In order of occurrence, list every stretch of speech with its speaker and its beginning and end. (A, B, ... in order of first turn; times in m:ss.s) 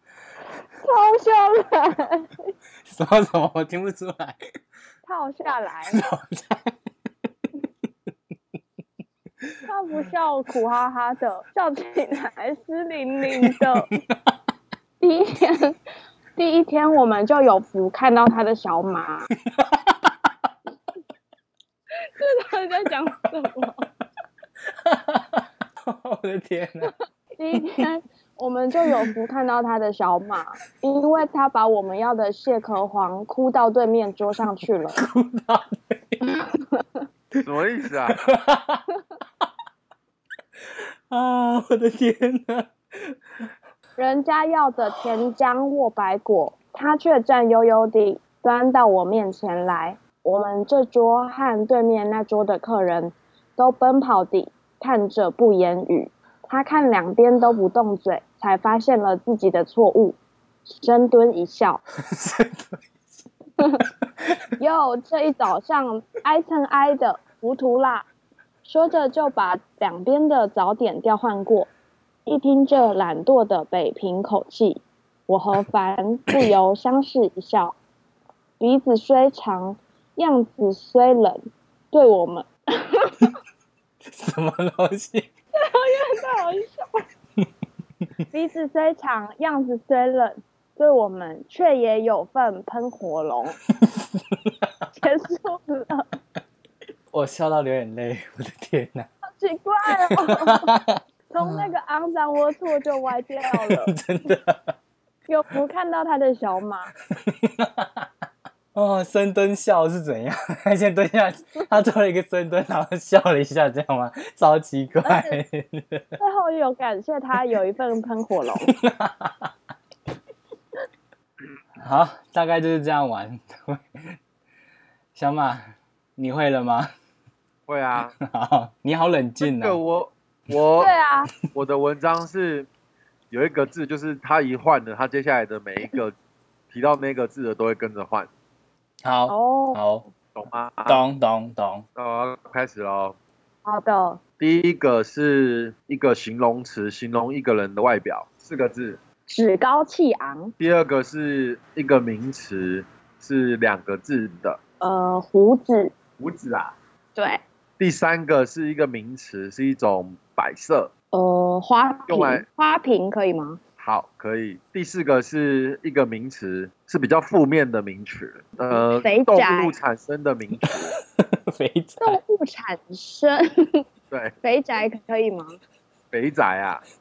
0:00.8-0:02.3 A
0:02.8-0:04.4 B
0:05.0-0:06.0 A
0:05.9-0:06.7 B
0:09.6-0:13.9 A
0:13.4-0:14.0 B
0:15.0-0:15.7 A
0:16.4-0:19.3 A
0:19.5-0:20.1 B
0:22.2-0:23.8 A
0:24.8-0:26.9 B
0:26.8-0:35.0 A
0:28.8-0:29.1 B
0:34.9-0:36.4 B
0:37.4-0:38.2 C
0:38.2-0:38.8 B
0:41.1-0:43.2 B
0:44.0-1:01.8 A
1:02.0-1:02.8 B
1:04.5-1:08.0 A
1:08.6-1:11.7 A
1:12.2-1:17.8 A
1:18.6-1:23.3 A
1:24.1-1:25.3 B
1:25.6-1:27.0 A
1:28.3-1:33.6 A
1:33.8-1:34.7 B
1:35.0-1:36.1 A
1:37.1-1:39.1 B
1:39.3-1:40.7 A
1:39.9-1:41.7 B
1:41.3-1:43.9 A
1:43.5-1:44.7 B
1:45.3-1:46.9 A
1:47.1-1:48.1 B
1:48.7-1:56.2 B
1:55.0-1:55.4 A
1:56.2-1:58.7 A
1:58.7-1:59.5 B
2:01.8-2:04.2 B
2:05.1-2:06.9 B
2:07.7-2:08.1 C
2:08.2-2:09.8 B
2:09.4-2:10.9 C
2:10.8-2:11.3 A
2:11.5-2:12.7 C
2:13.3-2:16.1 C
2:16.7-2:18.3 C
2:19.0-2:20.0 B
2:19.3-2:19.8 A
2:20.3-2:21.0 C
2:20.9-2:21.8 B
2:22.0-2:23.2 C
2:23.6-2:24.2 A
2:24.4-2:29.0 C
2:29.3-2:30.5 A
2:30.6-2:34.6 C
2:34.8-2:35.9 A
2:36.2-2:36.7 C
2:37.2-2:37.4 A
2:37.8-2:40.9 C
2:41.1-2:43.6 A
2:42.1-2:42.4 C
2:43.8-2:50.9 C
2:48.7-2:49.8 A
2:51.2-2:52.2 B
2:52.0-2:53.8 A
2:54.4-2:55.6 A
2:56.1-2:56.8 C